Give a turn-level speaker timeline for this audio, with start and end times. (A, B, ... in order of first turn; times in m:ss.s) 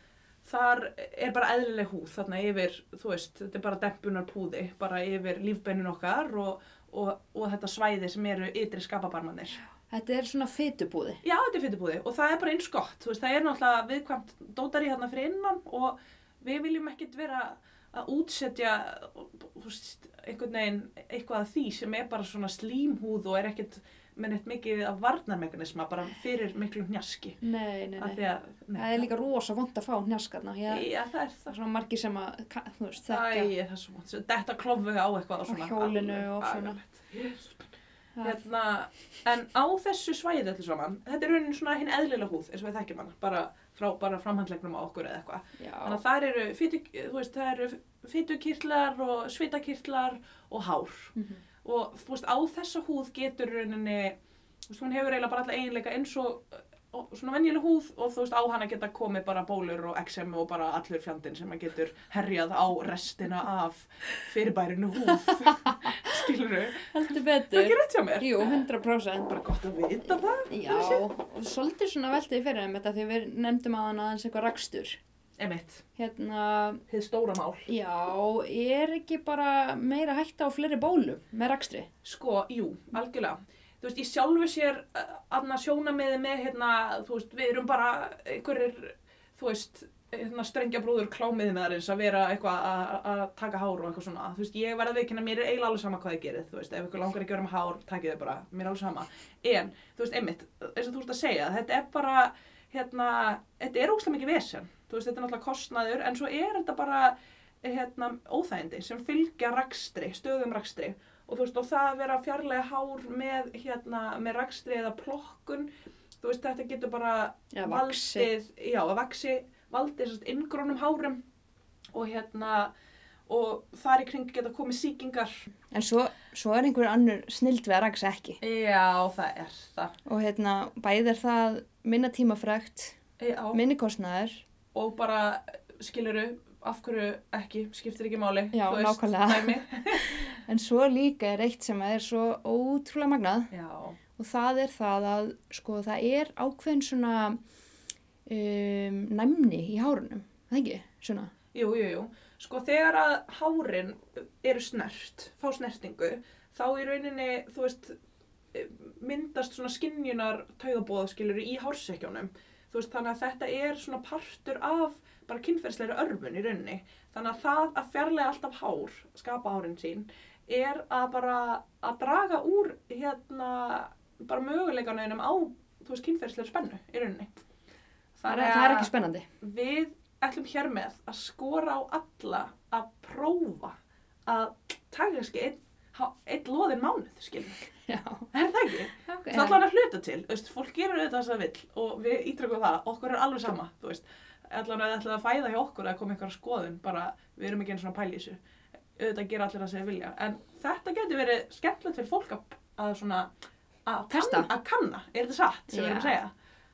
0:00.4-0:09.6 A
0:09.9-0:11.2 B
0:11.2-0:27.4 A
0:27.4-0:28.2 B
0:28.0-0:29.1 A
0:28.8-0:30.9 B
0:30.7-0:31.5 A
0:31.5-0:33.5 B
0:33.1-0:51.1 A
0:35.5-0:36.8 B
0:38.2-0:38.4 B
0:45.6-0:46.0 B
0:51.2-0:51.4 B
0:51.6-0:54.2 A
0:54.7-1:08.6 A
1:05.4-1:06.1 B
1:06.9-1:09.4 B
1:09.3-1:11.0 A
1:10.5-1:15.0 B
1:15.4-1:15.8 A
1:16.0-1:16.8 B
1:16.9-1:17.7 A
1:17.7-1:21.9 B
1:22.0-1:55.7 A
1:56.2-2:01.2 A
1:57.5-1:58.3 B
2:01.9-2:02.7 A
2:03.3-2:05.3 A
2:05.7-2:08.4 B
2:08.4-2:09.9 A
2:10.1-2:13.0 B
2:13.2-2:13.6 A
2:13.5-2:14.4 B
2:14.7-2:20.2 A
2:18.5-2:23.5 B
2:23.5-2:24.0 A
2:24.2-2:27.4 B
2:28.3-2:31.3 B
2:31.5-2:38.0 A
2:38.5-2:57.3 A
2:58.2-2:58.9 A
2:58.3-2:59.3 B
2:59.4-3:03.8 A
3:04.3-3:07.6 A
3:07.9-3:08.3 B
3:08.3-3:18.4 A
3:09.0-3:09.6 B
3:19.0-3:23.3 A
3:23.9-3:26.3 A
3:24.1-3:24.5 B
3:25.7-3:26.2 B